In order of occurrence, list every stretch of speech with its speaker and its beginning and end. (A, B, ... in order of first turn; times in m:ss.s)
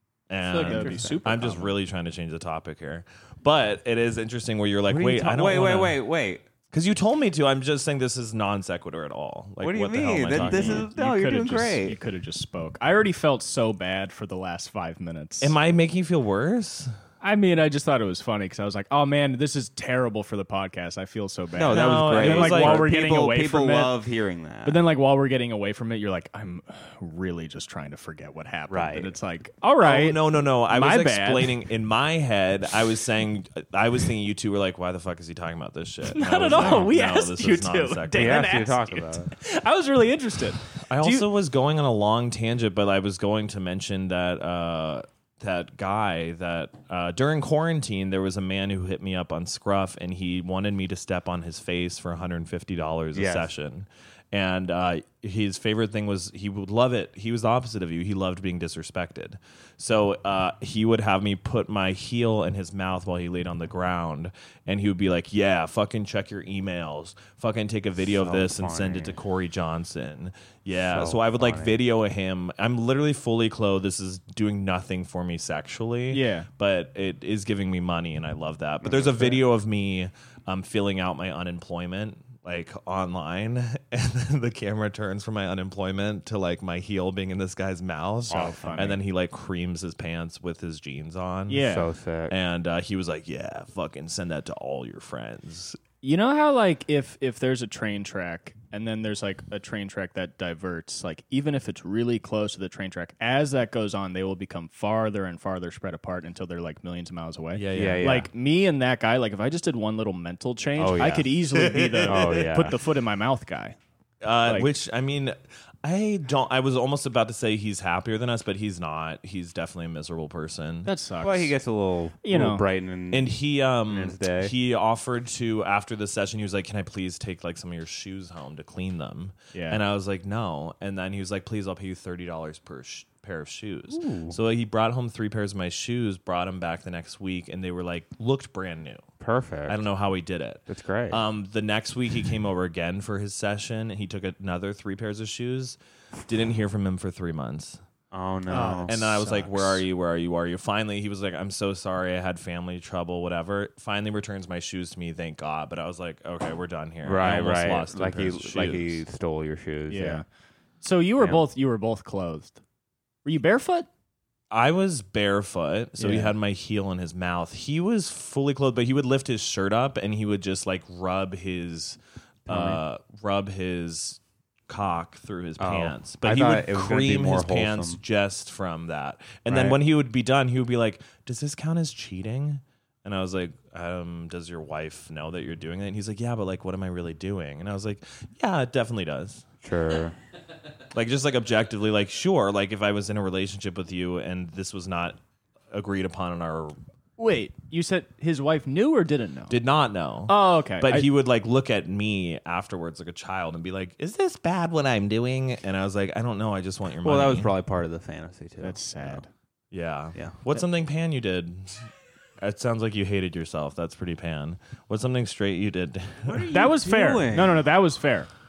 0:00.3-0:06.0 A
0:00.4-0:01.8 B
0:00.6-0:01.2 C
0:04.9-0:06.4 C
0:06.7-0:10.9 A
0:09.6-0:12.0 C
0:10.3-0:15.5 B
0:15.4-0:16.9 A
0:17.2-0:23.9 B
0:21.6-0:24.8 C
0:21.7-0:22.8 A
0:24.6-0:31.6 B
0:28.7-0:29.1 C
0:29.8-0:38.6 A
0:36.0-0:41.3 B
0:38.1-0:39.3 C
0:40.8-1:31.7 A
0:53.1-0:53.5 C
1:08.0-1:09.2 C
1:10.8-1:11.7 C
1:16.1-1:16.5 B
1:18.8-1:19.4 C
1:28.3-1:29.0 B
1:28.3-1:29.0 C
1:31.5-1:31.9 B
1:31.6-1:32.3 C
1:32.3-1:35.8 A
1:36.0-1:53.8 B
1:47.5-1:48.1 A
1:47.7-1:48.3 C
1:50.8-1:51.3 C
1:51.5-1:52.5 A
1:52.0-1:52.8 C
1:54.2-2:00.9 A
1:54.4-1:54.7 B
2:00.8-2:01.5 B
2:01.2-2:03.3 C
2:02.2-2:02.6 B
2:03.1-2:19.0 A
2:03.9-2:04.5 C
2:09.5-2:09.8 B
2:13.9-2:14.4 C
2:19.2-2:19.8 C
2:19.7-2:27.8 A
2:20.7-2:21.2 C
2:28.1-2:29.0 C
2:28.5-2:29.7 B
2:28.9-2:39.0 A
2:37.0-2:40.2 C
2:39.9-2:40.2 B
2:40.8-2:42.6 B
2:43.2-2:43.9 B
2:44.5-3:09.4 A
2:46.0-2:46.3 B
2:52.5-2:52.8 C
2:55.6-2:58.0 C
2:59.5-2:59.8 C
3:09.6-3:10.1 C
3:10.9-3:15.2 A
3:15.7-3:16.8 A
3:17.2-3:19.6 B
3:19.5-3:27.5 A
3:20.3-3:21.1 B
3:27.0-3:29.2 C
3:28.6-3:29.3 B
3:29.7-3:36.4 A
3:36.2-3:37.6 C
3:36.5-3:38.3 B